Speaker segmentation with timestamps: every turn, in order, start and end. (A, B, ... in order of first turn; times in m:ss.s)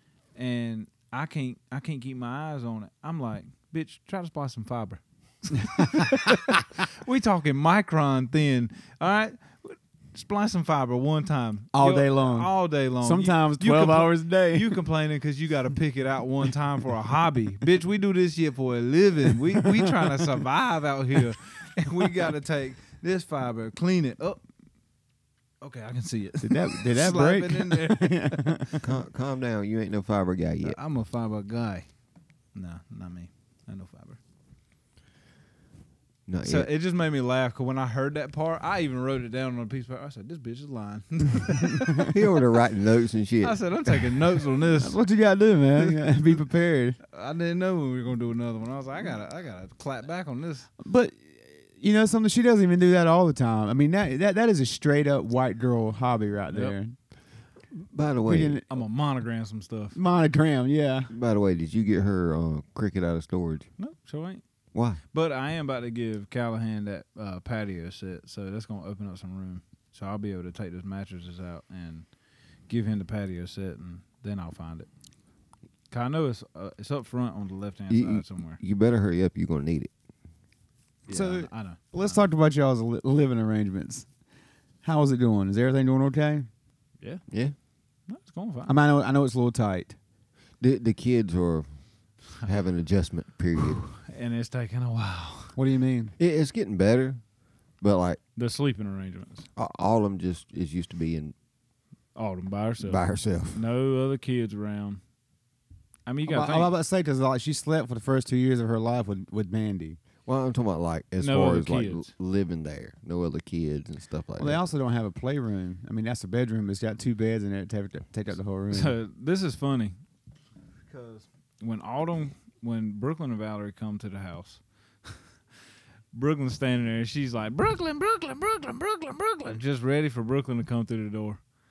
0:00.3-0:24.4 A
0:05.8-0:06.3 B
0:11.7-0:14.8 B
0:25.6-0:28.7 A
0:26.4-0:28.8 B
0:28.8-0:30.8 C
0:30.6-0:31.9 A
0:32.5-0:34.2 A
0:36.3-0:36.7 C
0:36.4-0:42.2 A
0:42.1-0:44.3 C
0:43.4-0:45.0 A
0:44.8-0:47.0 B
0:47.1-0:50.7 A
0:50.8-0:57.0 B
0:57.7-0:58.6 C
0:58.2-0:58.6 B
0:58.7-1:00.0 A
0:59.9-1:01.1 B
1:01.1-1:03.7 C
1:03.8-1:04.4 A
1:04.7-1:05.0 C
1:05.1-1:12.0 A
1:12.7-1:14.9 A
1:15.9-1:18.6 A
1:17.9-1:19.9 C
1:21.1-1:22.2 A
1:21.1-1:24.1 B
1:24.8-1:26.5 B
1:27.3-1:27.5 C
1:28.1-1:28.7 A
1:28.6-1:30.0 B
1:30.6-1:33.9 C
1:33.9-1:35.6 A
1:35.5-1:36.1 B
1:36.2-1:37.2 C
1:37.8-1:38.2 C
1:38.4-1:39.5 A
1:39.6-1:41.3 C
1:42.1-1:45.0 A
1:42.8-1:43.6 C
1:46.0-1:46.7 A
1:46.3-1:50.0 B
1:50.2-1:54.6 C
1:51.2-1:52.1 A
1:54.4-1:59.0 B
1:58.7-2:00.0 A
2:00.9-2:05.2 A
2:06.1-2:11.4 A